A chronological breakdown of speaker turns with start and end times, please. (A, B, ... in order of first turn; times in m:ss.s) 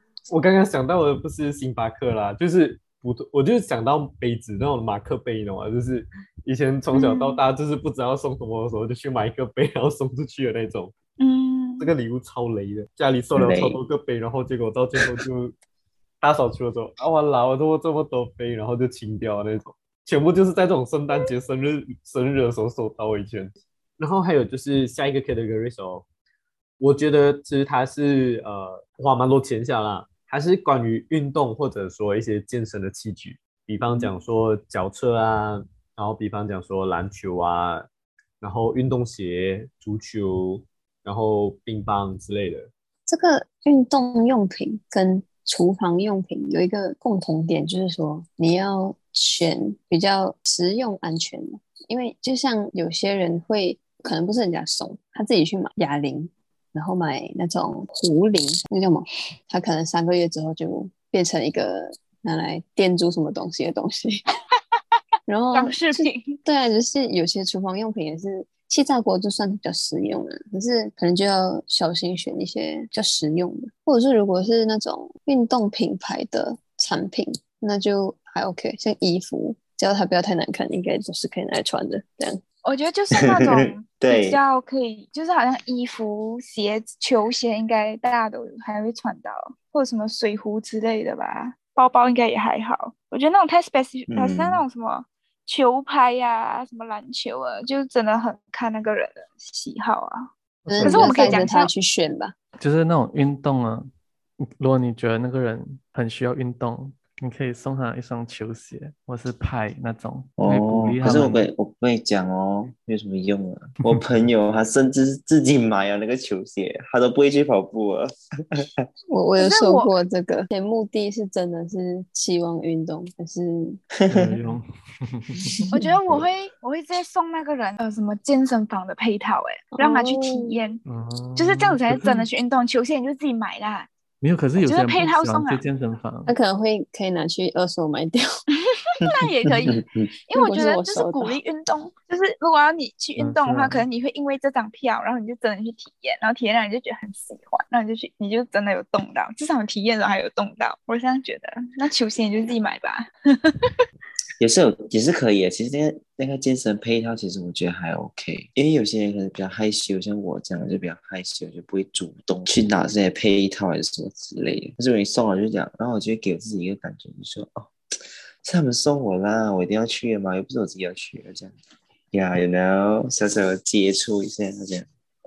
0:00.3-0:10.9 A
0:06.9-0:07.4 B
0:11.2-0:11.9 B
0:11.8-0:15.5 A
0:13.3-0:13.8 C
0:16.2-0:26.0 A
0:26.8-0:37.9 A
0:38.4-0:42.7 A
0:43.1-1:04.2 D
1:05.3-1:22.4 D
1:05.5-1:06.4 B
1:22.6-1:40.3 B
1:23.2-1:24.4 C
1:34.1-1:34.6 C
1:40.6-1:41.5 E
1:40.7-1:42.4 D
1:40.8-1:41.7 B
1:42.6-1:43.9 E
1:44.5-1:51.5 E
1:50.4-1:58.7 C
1:59.1-2:03.8 D
1:59.4-1:59.9 B
2:04.0-2:04.4 C
2:04.1-2:05.8 E
2:05.7-2:10.8 B
2:09.7-2:10.6 D
2:10.9-2:12.3 E
2:11.4-2:13.9 B
2:14.2-2:16.3 E
2:14.6-2:15.6 B
2:16.3-2:18.2 D
2:18.9-2:33.6 B
2:19.6-2:20.1 C
2:20.3-2:21.4 D
2:23.2-2:23.9 E
2:34.4-2:51.5 C
2:52.1-2:54.9 C